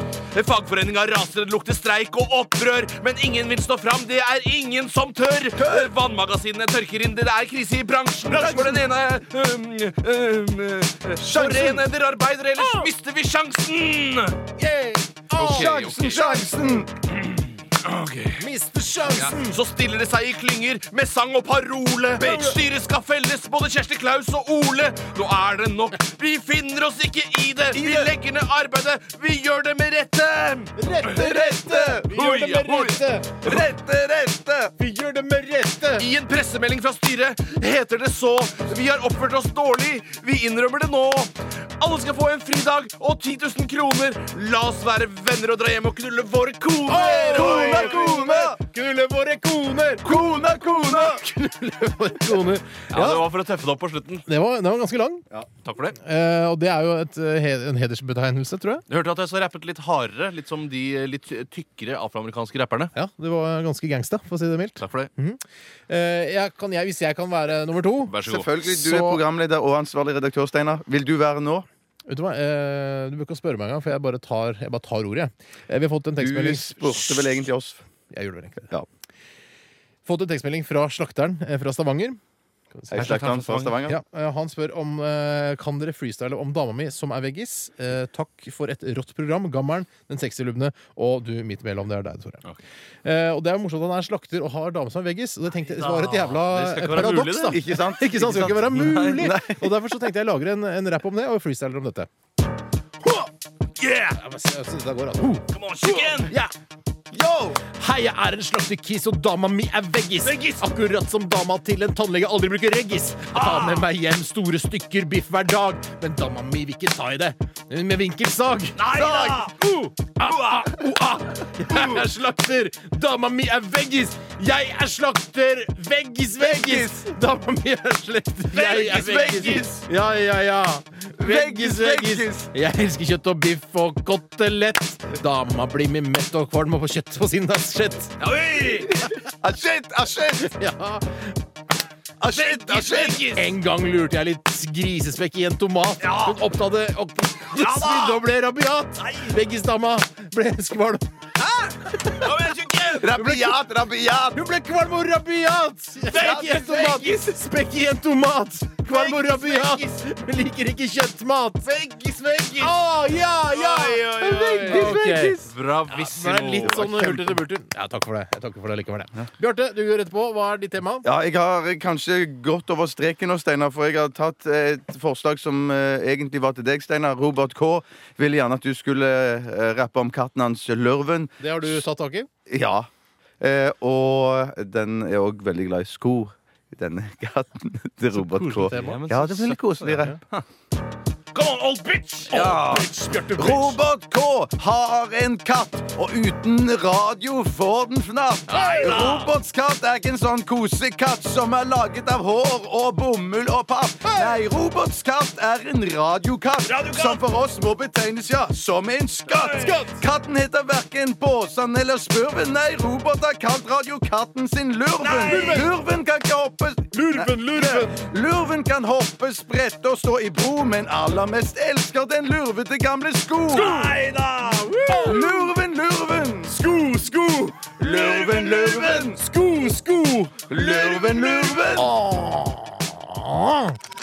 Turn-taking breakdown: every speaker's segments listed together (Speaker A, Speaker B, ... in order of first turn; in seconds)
Speaker A: 0.3-14.4, 15.3-16.5, 17.1-18.5, 19.1-31.3, 32.1-33.6, 36.0-48.3, 52.9-54.2, 55.6-56.0, 58.9-62.9, 64.8-65.1, 68.1-68.5, 82.9-83.8, 95.7-97.6, 98.1-99.3, 103.8-104.2, 105.5-106.3, 110.2-110.6, 113.3-113.8, 118.8-119.6, 120.3-120.6, 138.2-139.0, 142.3-143.5, 146.0-146.4, 147.5-148.2, 149.0-149.3, 151.4-153.1, 156.1-157.1, 158.9-159.8, 161.7-162.8, 163.5-167.3, 188.7-189.7, 191.3-192.4, 198.5-199.3, 206.7-207.2, 215.0-215.7, 223.6-225.2, 227.8-229.2, 230.6-231.5
Speaker B: 5.6-5.9, 8.4-8.7, 11.2-11.8, 15.4-16.9, 27.7-28.1, 31.1-32.1, 33.4-34.7, 47.3-48.6, 50.0-51.2, 68.2-71.7, 76.2-77.8, 82.9-84.0, 97.5-99.7, 107.1-107.6, 118.9-119.5, 126.4-127.1, 128.5-129.8, 131.2-132.5, 138.6-140.5, 142.2-143.2, 153.0-154.4, 156.1-157.1, 164.2-165.5, 166.6-167.3, 171.0-181.8, 182.5-182.9, 183.4-190.2, 192.3-223.9, 225.0-226.6, 227.8-229.2, 230.5-231.9
Speaker C: 14.6-16.8, 18.4-19.6, 22.2-22.6, 30.8-33.6, 34.8-36.1, 46.9-50.3, 50.9-53.2, 54.2-55.2, 56.0-58.9, 62.9-69.2, 72.1-77.4, 78.1-78.7, 80.0-82.2, 82.7-83.2, 83.8-92.4, 93.0-102.1, 104.1-106.5, 107.7-118.8, 119.4-138.2, 140.4-141.4, 143.3-151.1, 151.9-152.3, 153.1-153.6, 154.3-161.8, 162.6-171.1, 181.4-182.3, 188.1-189.2, 189.8-190.2, 192.3-193.8, 198.7-199.0, 204.0-204.4, 209.5-210.0, 215.2-215.7, 216.9-218.0, 223.7-223.9, 224.5-225.3, 226.5-227.8, 229.1-230.5, 231.8-233.8